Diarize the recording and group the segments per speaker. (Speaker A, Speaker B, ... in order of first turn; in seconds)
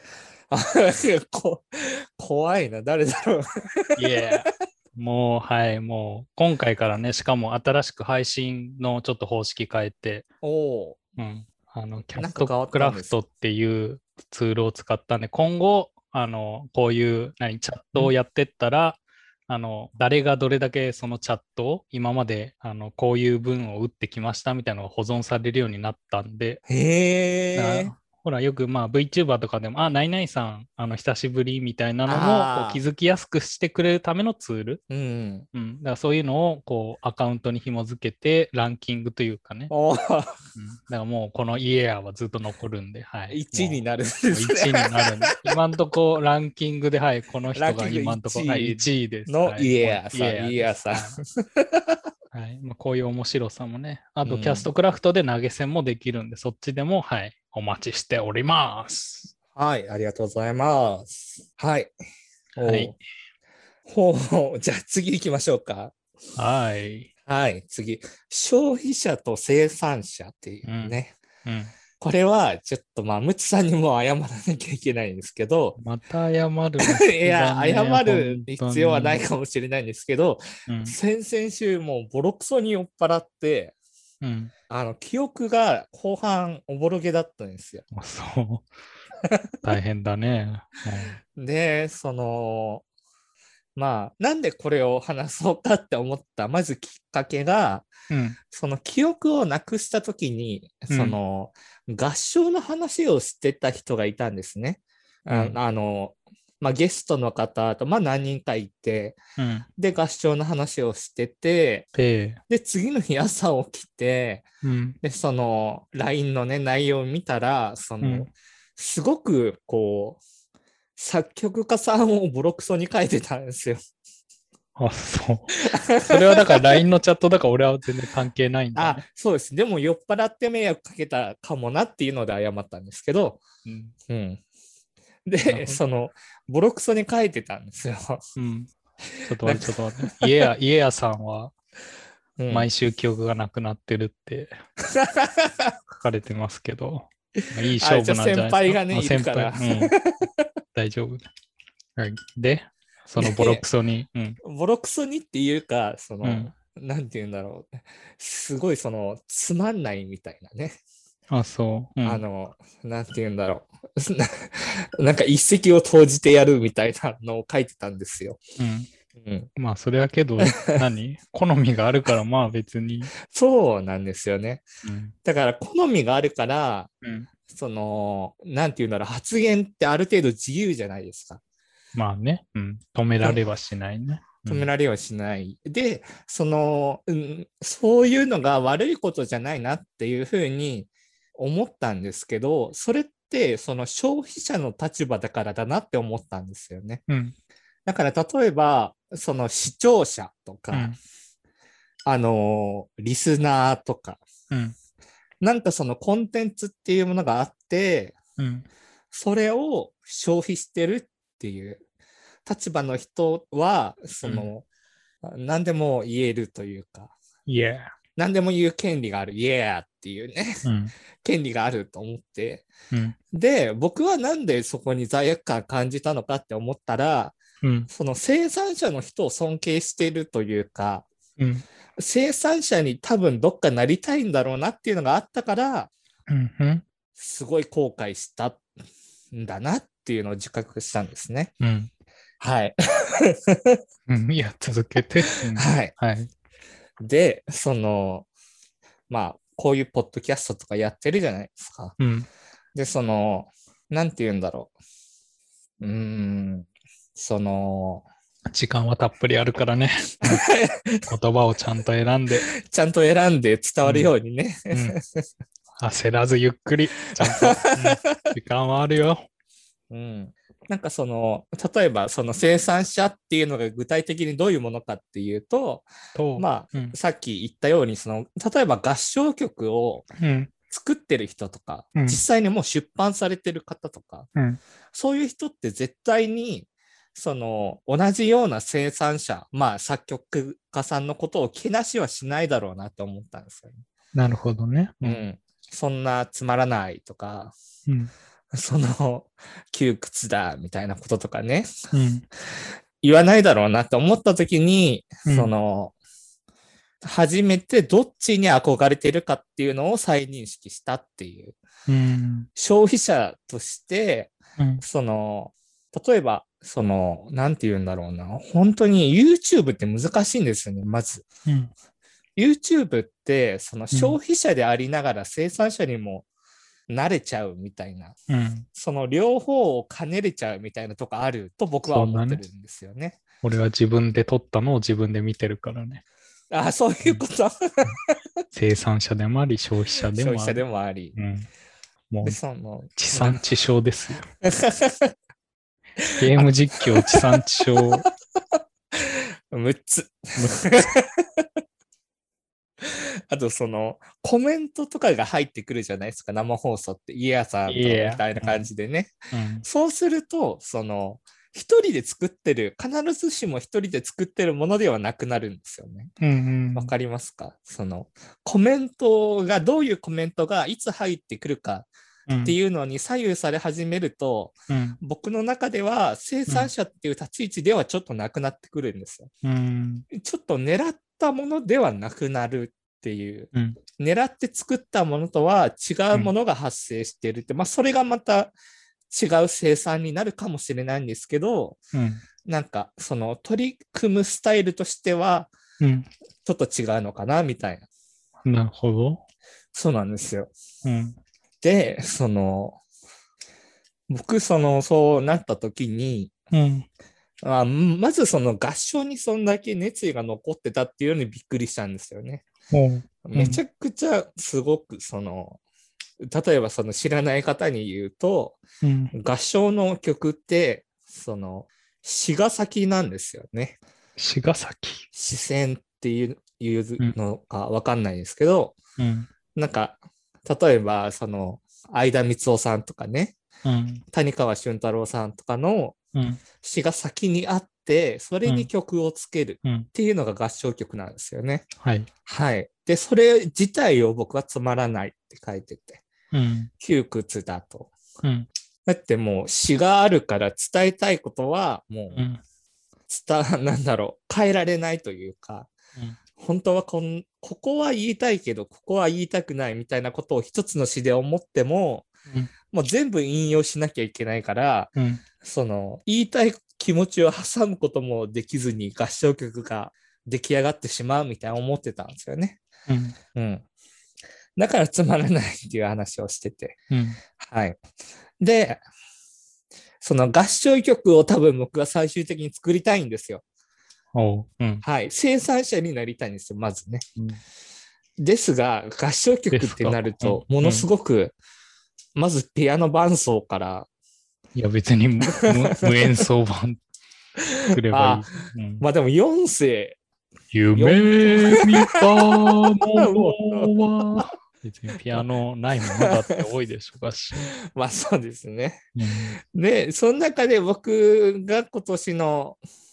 Speaker A: 0.5-4.0, 10.4-11.0, 12.2-13.1, 26.7-27.9, 32.1-32.8, 34.9-35.5, 39.7-40.4, 43.3-45.5, 47.5-52.0, 54.3-54.7, 59.5-61.9, 62.6-62.9, 63.9-65.9, 67.3-71.1, 72.0-75.8, 76.8-83.8, 84.7-87.8, 89.2-89.5, 91.3-92.8, 93.8-97.9, 98.5-109.2, 109.8-111.9, 112.5-114.4, 115.0-120.2, 121.0-123.8, 125.6-126.8, 128.8-133.4, 134.1-134.4, 135.3-138.2, 139.4-140.5, 142.4-142.7, 144.9-145.7, 147.8-150.5, 153.2-153.6, 154.4-160.8, 162.0-168.4, 169.1-169.5, 173.2-174.6, 175.2-176.9, 177.5-181.4, 184.5-197.0, 197.9-200.9, 202.1-204.2, 205.4-208.2, 209.1-211.8, 212.4-214.7, 215.2-217.1, 218.2-220.6, 221.2-222.7, 223.3-227.4, 227.9-231.1, 232.0-235.9, 237.2-238.7, 239.3-241.5, 242.4-243.8, 245.5-245.9, 247.0-248.3, 249.1-251.9, 252.8-254.7, 255.8-258.1, 260.2-261.1, 262.5-265.3, 267.1-268.3, 269.9-275.9, 276.4-280.1, 280.7-284.3, 284.9-293.8, 295.0-297.5, 298.5-301.7, 303.0-305.9, 307.0-311.6, 312.6-321.2, 322.4-326.3, 326.9-328.1, 328.8-333.2, 336.5-338.1, 340.1-341.1, 342.2-343.4, 344.4-345.1, 346.0-347.2, 348.6-351.5, 352.8-359.1, 359.6-366.1, 366.8-371.9, 372.4-379.3, 380.1-388.5, 389.1-391.8, 392.4-395.5, 396.4-397.9, 399.7-400.5, 401.6-402.8, 404.1-406.3, 407.4-412.4, 413.2-415.6, 416.2-418.6, 419.1-423.8, 425.1-428.8, 429.6-433.3, 434.1-436.0, 436.6-441.7, 442.3-446.0, 446.8-447.9, 448.9-452.2, 453.1-455.7, 456.4-462.1, 462.7-464.9, 465.4-472.6, 473.4-473.6, 474.6-476.8, 477.4-477.8, 478.4-478.8, 480.0-483.4, 484.8-487.0, 488.2-491.4, 492.1-493.9, 495.4-496.2, 497.6-498.3, 498.8-500.0, 500.7-504.3, 506.0-506.4, 507.6-508.9, 509.4-512.6
Speaker B: 4.0-10.3, 11.2-26.6, 27.5-34.8, 35.5-39.7, 40.5-51.2, 52.3-59.3, 62.6-63.0, 66.4-67.1, 70.6-71.7, 75.8-79.2, 80.7-81.0, 84.2-84.5, 87.9-88.7, 89.6-91.2, 98.1-98.4, 100.9-101.2, 105.3-105.6, 109.4-109.7, 111.9-112.4, 114.6-115.0, 118.0-118.3, 124.8-129.0, 133.7-133.9, 135.4-135.8, 138.4-138.7, 139.2-141.5, 142.5-144.6, 146.0-149.9, 150.8-151.2, 152.0-154.4, 156.2-156.5, 161.3-162.2, 168.6-168.9, 169.6-173.1, 174.8-175.1, 177.0-177.3, 181.9-184.7, 197.1-197.3, 200.7-201.0, 208.4-208.7, 214.2-214.5, 217.5-217.9, 220.6-220.9, 227.6-227.9, 231.4-231.6, 236.3-236.8, 241.6-241.9, 244.1-246.3, 252.0-252.3, 258.5-260.4, 261.1-262.5, 263.8-264.1, 264.7-264.9, 265.8-269.3, 276.1-276.9, 280.2-280.5, 281.9-282.2, 294.1-295.2, 301.9-302.3, 305.2-305.5, 311.9-312.5, 314.6-314.8, 328.3-328.7, 331.9-332.4, 333.4-336.0, 338.5-340.6, 341.1-341.5, 342.1-342.4, 342.9-344.2, 346.2-348.1, 357.7-358.6, 359.3-359.6, 366.2-366.9, 372.3-372.6, 374.7-375.0, 379.4-380.1, 391.9-392.2, 395.8-396.1, 398.4-399.2, 400.8-401.2, 406.5-406.9, 412.7-413.6, 418.8-419.1, 424.2-425.1, 429.0-429.3, 433.6-434.0, 436.1-436.4, 441.8-442.1, 446.3-446.7, 448.2-448.5, 452.1-452.4, 464.9-465.2, 472.9-473.1, 476.9-477.2, 484.1-484.8, 489.5-490.9, 494.6-496.8, 497.7-498.9, 500.5-507.5, 509.0-509.4